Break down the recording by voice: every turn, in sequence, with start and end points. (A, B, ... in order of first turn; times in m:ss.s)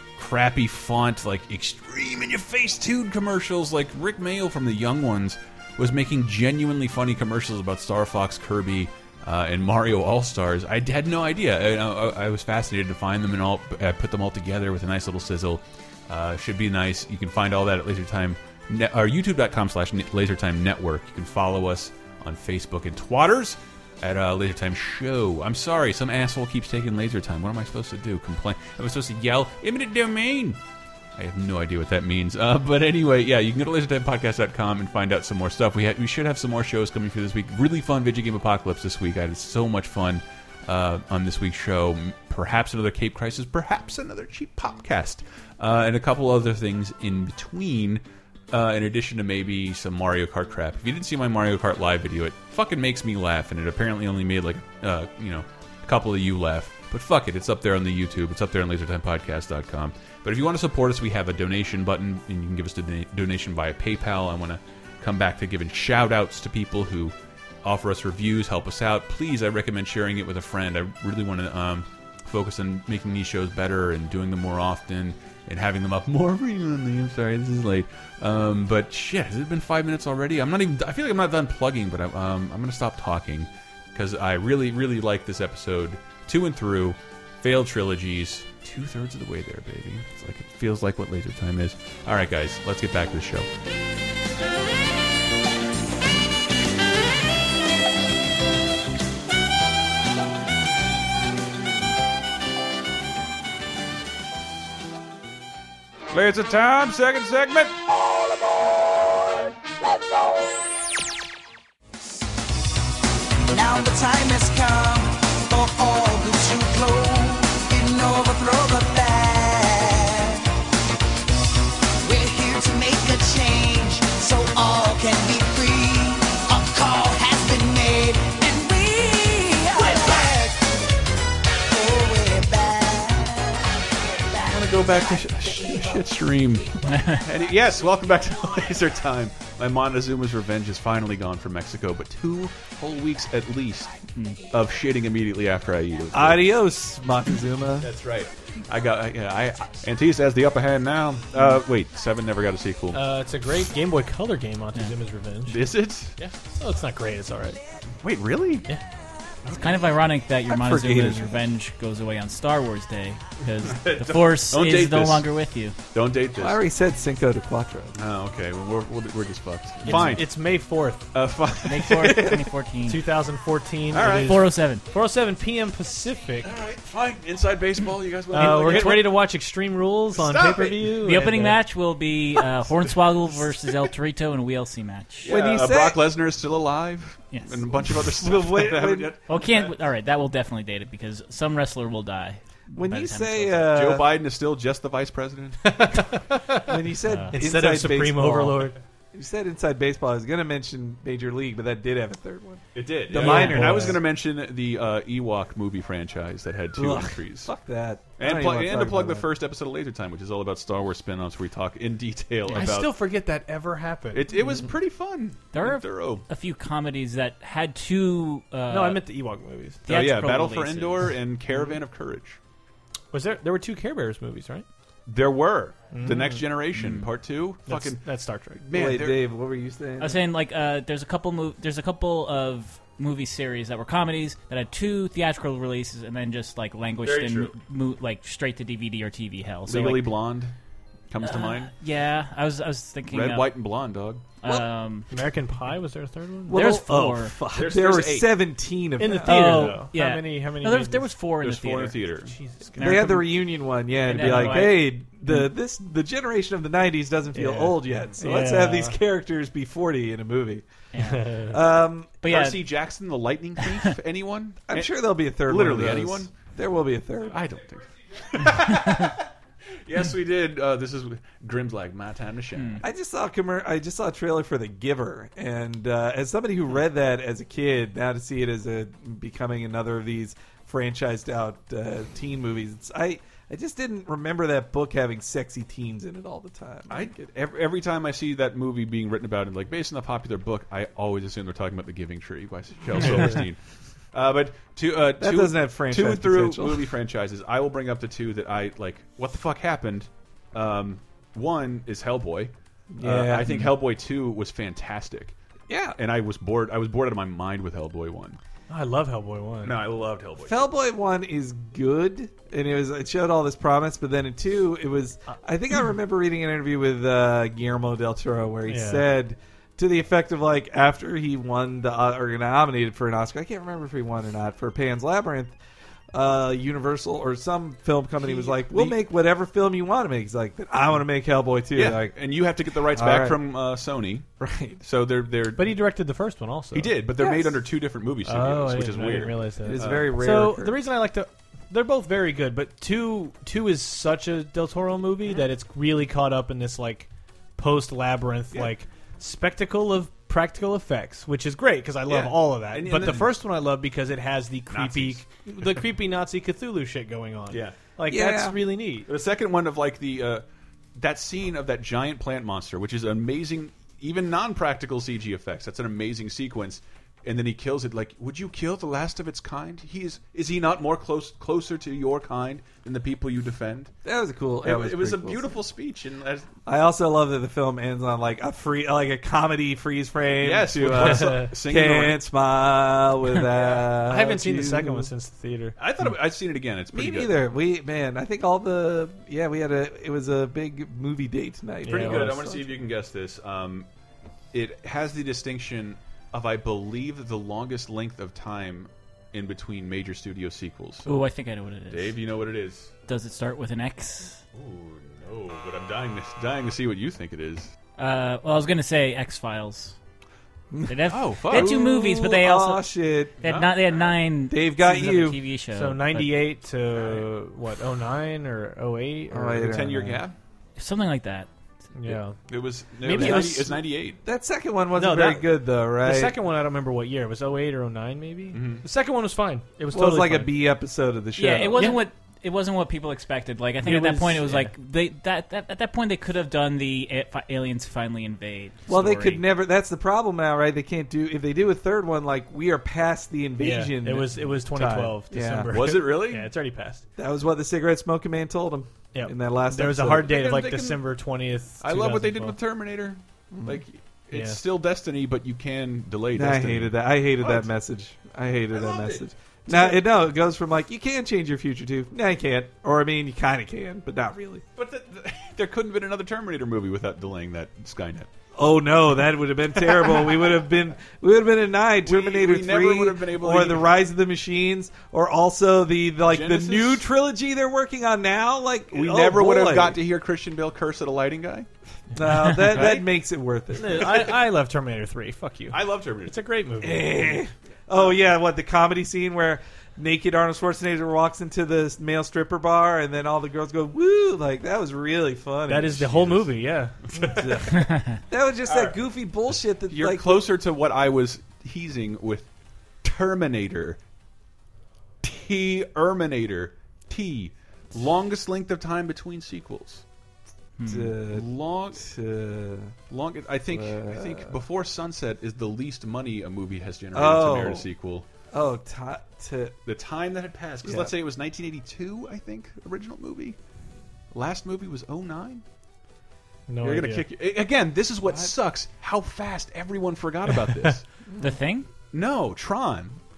0:00.2-0:30.6 A
0:31.2-1:33.5 A
1:46.1-1:47.7 A
1:53.5-2:00.5 B
2:02.0-2:10.8 B
2:11.7-2:13.9 B
2:14.3-2:24.0 A
2:16.9-2:17.2 C
2:24.5-2:26.5 A
2:26.1-2:27.9 D
2:27.8-2:33.0 A
2:32.9-2:35.6 E
2:35.5-2:36.2 A
2:36.2-2:37.6 E
2:38.0-2:38.7 A
2:39.4-2:39.8 A
2:39.6-2:45.8 C
2:40.5-2:41.3 D
2:43.6-2:45.3 A
2:45.9-2:46.6 A
2:46.4-2:48.0 D
2:48.0-2:50.3 A
2:49.9-2:50.2 C
2:49.9-2:51.1 E
2:51.1-2:52.5 A
2:51.7-2:53.1 C
2:52.9-2:56.5 E
2:53.9-2:54.4 A
2:54.1-2:54.8 C
2:56.4-2:59.2 A
2:58.3-3:01.6 E
3:00.2-3:01.0 A
3:01.0-3:05.3 C
3:05.2-3:09.7 A
3:05.3-3:06.0 D
3:07.3-3:07.6 C
3:08.2-3:09.1 D
3:09.3-3:13.8 C
3:12.7-3:14.2 D
3:13.7-3:15.9 A
3:15.6-3:16.8 E
3:16.7-3:24.0 D
3:17.3-3:18.8 E
3:22.8-3:27.5 A
3:23.2-3:24.0 E
3:26.8-3:29.3 D
3:28.2-3:33.0 A
3:32.5-3:34.3 E
3:34.1-3:36.2 A
3:35.5-3:39.0 C
3:38.7-3:39.8 E
3:39.8-3:41.2 C
3:39.9-3:42.4 A
3:43.1-3:44.7 E
3:45.1-3:48.0 A
3:45.9-3:46.4 E
3:46.8-3:47.1 C
3:47.7-3:48.6 E
3:48.6-3:49.2 A
3:48.7-3:50.2 D
3:50.0-4:00.1 C
3:57.0-3:57.6 A
3:59.7-4:00.5 A
4:01.1-4:01.7 A
4:01.2-4:03.5 C
4:03.1-4:04.2 A
4:04.4-4:05.1 C
4:05.1-4:06.7 E
4:06.5-4:09.8 D
4:06.5-4:07.4 C
4:07.5-4:08.3 A
4:09.0-4:11.2 E
4:09.2-4:12.1 C
4:11.4-4:12.3 A
4:12.3-4:12.9 E
4:12.8-4:13.3 C
4:12.8-4:20.6 D
4:14.0-4:15.0 C
4:17.3-4:19.0 E
4:20.9-4:21.4 C
4:21.0-4:21.5 E
4:21.5-4:22.1 D
4:22.2-4:22.8 C
4:22.2-4:26.3 A
4:24.7-4:27.4 D
4:27.3-4:29.3 A
4:29.8-4:32.8 A
4:32.6-4:32.8 C
4:32.8-4:47.2 D
4:46.9-4:53.6 A
4:54.1-5:05.4 A
4:55.2-4:56.9 D
5:02.9-5:03.6 D
5:05.7-5:06.0 D
5:06.0-5:08.4 A
5:08.7-5:09.8 E
5:09.6-5:10.7 A
5:10.4-5:25.6 D
5:18.7-5:19.1 E
5:26.1-5:32.2 D
5:28.2-5:29.0 A
5:31.7-5:34.3 A
5:32.9-5:33.4 D
5:34.4-5:34.8 D
5:34.8-5:35.8 A
5:35.6-5:36.9 E
5:36.7-5:40.1 A
5:37.2-5:37.5 D
5:38.3-5:59.1 E
5:39.6-5:40.8 D
5:52.1-5:53.3 A
5:54.7-5:55.8 A
5:58.1-5:58.6 D
5:59.1-6:00.4 A
6:01.0-6:13.9 A
6:14.0-6:15.6 D
6:14.6-6:16.5 A
6:16.7-6:25.1 D
6:20.4-6:22.2 A
6:20.9-6:21.5 E
6:23.7-6:25.8 E
6:25.8-6:27.4 A
6:26.9-6:32.8 D
6:31.8-6:32.4 E
6:31.9-6:33.9 A
6:34.5-6:41.1 A
6:41.1-6:42.2 C
6:41.9-6:43.0 A
6:43.1-6:44.4 C
6:44.6-6:47.7 A
6:48.0-6:50.0 C
6:50.7-6:53.4 D
6:50.9-6:52.9 C
6:51.1-6:51.8 A
6:53.4-6:56.4 C
6:53.4-6:53.8 A
6:54.5-6:55.4 D
6:55.7-6:59.8 E
6:59.3-7:00.2 D
6:59.6-7:00.4 A
7:00.8-7:01.5 C
7:02.0-7:02.4 E
7:02.5-7:04.2 A
7:03.0-7:03.7 E
7:04.2-7:06.4 D
7:05.0-7:10.5 E
7:08.5-7:08.8 A
7:09.9-7:12.0 D
7:11.4-7:19.4 C
7:11.7-7:12.0 E
7:13.8-7:14.7 E
7:18.9-7:25.7 D
7:23.6-7:27.0 E
7:25.7-7:26.5 A
7:27.2-7:30.4 D
7:29.1-7:32.6 E
7:30.2-7:31.0 A
7:31.8-7:37.7 A
7:33.5-7:33.8 D
7:34.3-7:34.6 E
7:36.3-7:44.6 D
7:38.7-7:40.0 A
7:44.8-7:48.3 A
7:48.6-8:00.0 D
7:52.0-7:53.9 A
7:56.3-7:57.0 A
7:58.9-8:01.7 A
8:02.1-8:04.3 D
8:02.6-8:02.9 C
8:03.8-8:07.4 E
8:05.7-8:06.4 A
8:06.8-8:16.4 D
8:15.7-8:17.0 E
8:17.2-8:20.5 D
8:18.7-8:19.0 A
8:19.9-8:22.5 A
8:23.0-8:24.0 A
8:25.2-8:30.0 A
8:30.8-8:31.2 C
8:30.8-8:33.0 D
8:31.2-8:32.0 A
8:33.1-8:38.3 A
8:33.7-8:34.6 D
8:37.1-8:37.9 D
8:38.5-8:39.8 D
8:39.9-8:43.6 A
8:40.8-8:41.1 D
8:44.3-8:45.6 A
8:46.7-8:47.3 E
8:46.8-8:51.0 A
8:51.4-8:51.9 C
8:52.1-8:53.2 A